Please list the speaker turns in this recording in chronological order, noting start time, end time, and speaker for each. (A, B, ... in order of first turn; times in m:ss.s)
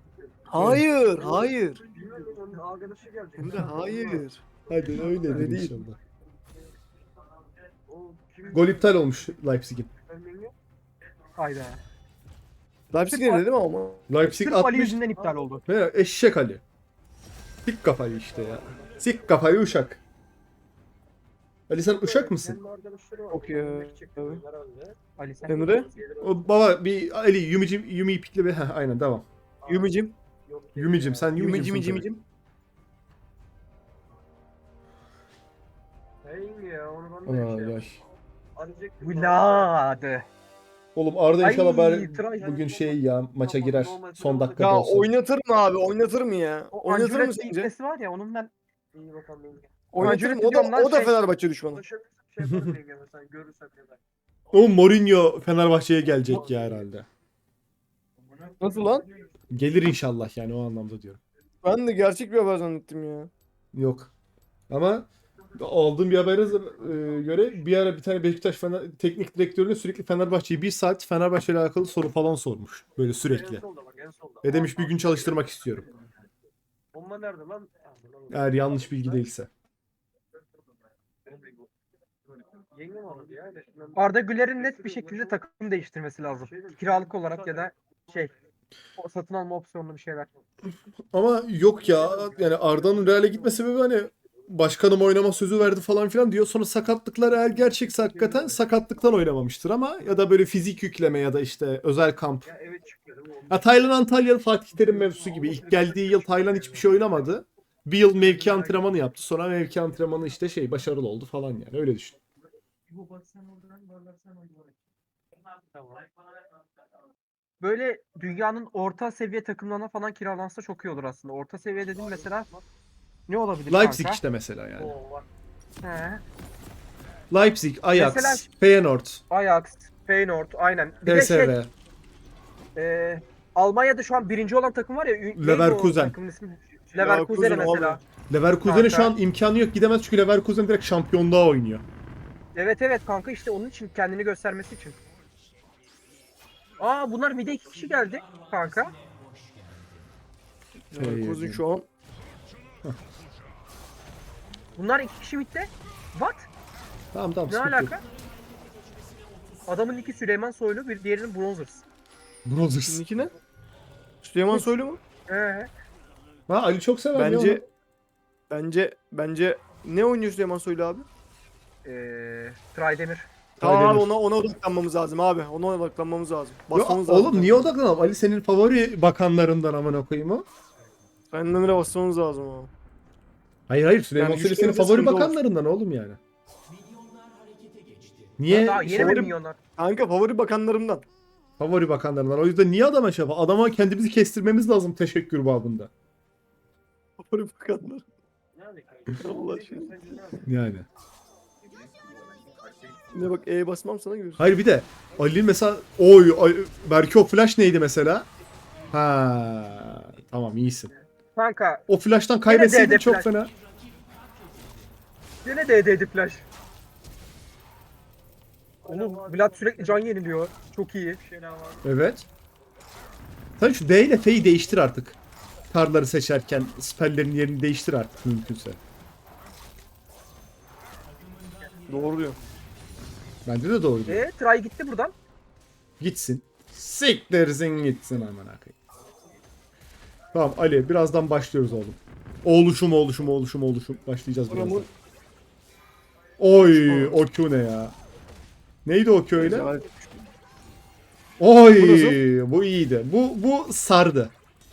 0:00.5-0:02.0 A
0:00.6-0:00.9 B
0:02.8-0:03.1 C
0:03.4-0:04.4 A
0:04.7-0:06.0 B
0:05.2-0:05.8 A
0:08.5-0:09.9 B
0:11.4-0:11.8 D
0:12.9-0:14.0 A
0:13.1-0:13.4 D
0:14.1-0:15.0 B
0:14.3-0:15.6 D
0:15.7-0:16.6 B
0:17.6-0:20.0 B
0:21.7-0:22.6 B
0:23.3-0:24.4 A
0:25.2-0:26.0 D
0:25.5-0:25.9 A
0:26.2-0:29.3 B
0:29.7-0:30.2 A
0:30.8-0:32.1 B
0:31.3-0:32.2 A
0:36.5-0:37.0 C
0:37.2-0:38.0 B
0:39.0-0:40.3 D
0:41.0-0:45.1 B
0:41.4-0:42.6 D
0:44.6-0:47.7 A
0:46.7-0:48.5 D
0:49.9-0:51.8 A
0:50.0-0:51.2 D
0:52.4-0:52.8 B
0:52.9-0:53.5 C
0:54.5-0:57.1 B
0:58.6-0:59.1 A
0:59.5-1:01.2 B
1:01.6-1:03.3 A
1:03.7-1:04.1 B
1:04.7-1:13.6 B
1:14.4-1:15.9 B
1:17.3-1:17.7 C
1:18.3-1:19.5 B
1:22.9-1:23.7 C
1:24.0-1:28.3 D
1:29.0-1:30.3 D
1:31.1-1:42.5 B
1:43.5-1:52.2 B
1:57.6-2:02.5 D
2:03.3-2:04.2 D
2:03.7-2:05.0 B
2:05.8-2:06.2 D
2:07.3-2:09.2 B
2:07.9-2:08.5 D
2:09.3-2:11.6 D
2:11.1-2:11.7 B
2:12.8-2:18.0 D
2:15.4-2:16.2 B
2:16.9-2:18.0 A
2:18.3-2:21.8 B
2:18.6-2:19.2 D
2:22.6-2:25.0 D
2:26.8-2:29.0 D
2:30.9-2:31.9 A
2:31.0-2:31.6 B
2:34.8-2:36.5 D
2:37.1-2:38.0 B
2:37.5-2:38.0 D
2:39.7-2:41.8 D
2:42.4-2:43.1 B
2:42.9-2:43.3 A
2:44.2-2:45.0 A
2:45.3-2:45.7 D
2:46.5-2:47.6 B
2:47.2-2:47.6 A
2:48.5-2:51.1 A
2:51.8-2:53.3 D
2:53.6-2:54.1 B
2:53.6-2:57.8 A
2:56.7-3:00.4 B
3:01.3-3:02.7 A
3:03.7-3:06.2 B
3:04.2-3:05.4 A
3:08.4-3:09.3 B
3:08.5-3:09.6 D
3:08.9-3:11.0 A
3:11.6-3:15.9 B
3:17.2-3:18.0 A
3:19.1-3:20.4 A
3:20.4-3:20.9 B
3:23.1-3:24.4 A
3:24.4-3:28.3 B
3:28.9-3:30.9 B
3:31.4-3:31.8 D
3:31.9-3:33.5 B
3:32.5-3:33.3 D
3:35.4-3:36.5 D
3:38.8-3:41.2 D
3:41.8-3:42.3 B
3:43.6-3:45.2 B
3:45.7-3:48.8 B
3:51.9-3:52.4 A
3:53.5-3:54.3 B
3:54.1-3:55.1 D
3:56.0-3:58.7 B
4:00.3-4:04.9 B
4:04.5-4:04.9 A
4:06.4-4:08.0 B
4:06.7-4:07.2 A
4:08.8-4:09.7 B
4:09.4-4:10.3 A
4:11.4-4:14.3 B
4:11.7-4:12.2 A